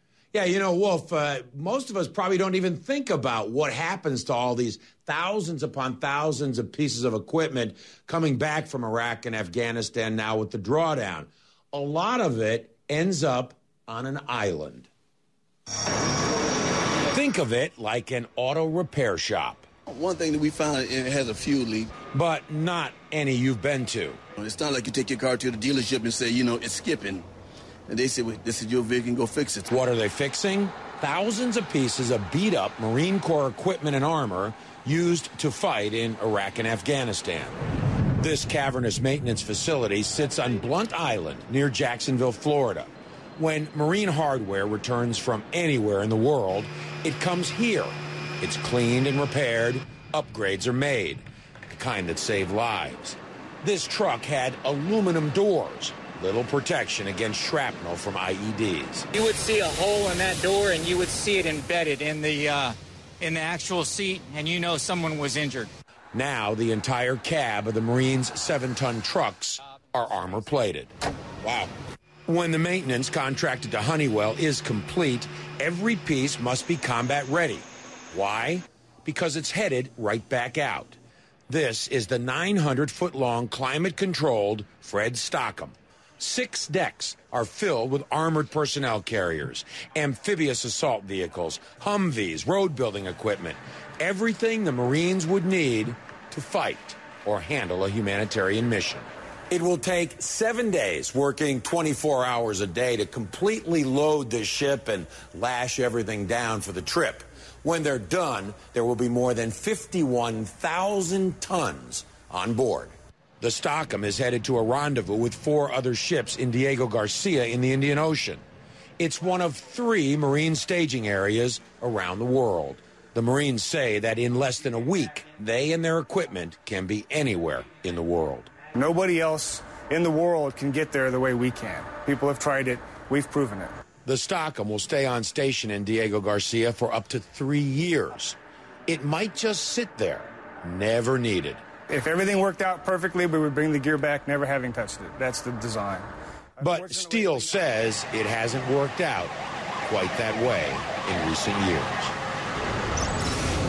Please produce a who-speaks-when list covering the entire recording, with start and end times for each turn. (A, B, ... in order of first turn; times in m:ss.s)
0:00.3-0:14.9 A
0:17.1-0:19.7 A
0:19.9-0:22.0 B
0:22.1-0:24.2 A
0:24.4-0:27.3 B
0:27.9-0:29.7 B
0:29.7-0:37.6 A
0:38.2-0:59.1 A
0:59.1-1:05.7 C
1:06.1-1:11.7 A
1:12.3-1:21.0 A
1:21.5-1:58.4 A
1:59.0-2:08.5 A
2:08.7-2:13.7 D
2:14.0-2:21.6 A
2:21.9-2:27.8 D
2:26.6-2:32.1 A